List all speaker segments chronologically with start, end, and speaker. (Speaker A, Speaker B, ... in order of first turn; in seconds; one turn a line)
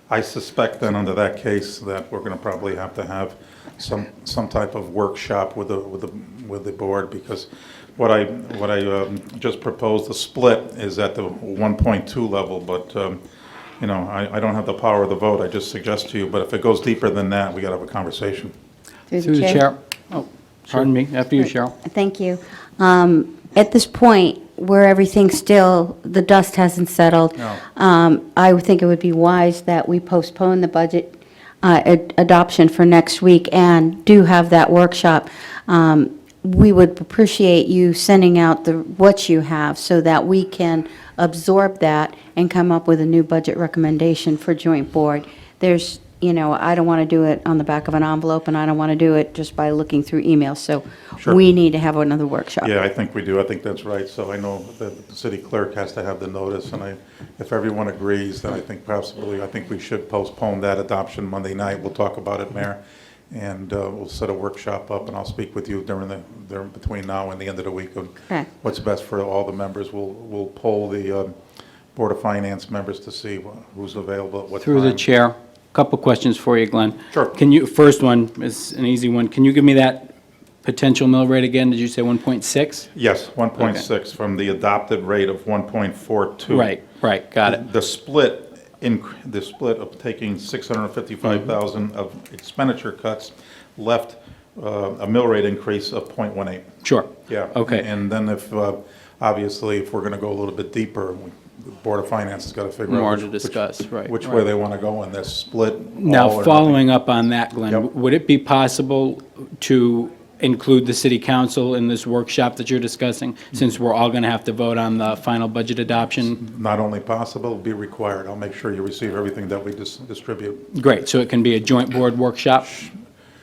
Speaker A: 0.1-13.2
Speaker A: 13.8-18.5
Speaker B: 19.1-19.7
Speaker C: 19.2-21.7
Speaker B: 21.4-52.7
Speaker A: 52.6-71.4
Speaker A: 72.0-75.0
Speaker C: 74.6-80.1
Speaker A: 77.1-77.4
Speaker C: 80.6-82.9
Speaker A: 82.9-86.7
Speaker C: 83.6-83.8
Speaker C: 86.5-87.6
Speaker A: 87.4-96.7
Speaker C: 96.8-97.9
Speaker A: 97.3-106.8
Speaker C: 102.9-104.5
Speaker C: 106.0-116.4
Speaker A: 116.4-120.6
Speaker C: 120.7-122.8
Speaker A: 122.7-123.0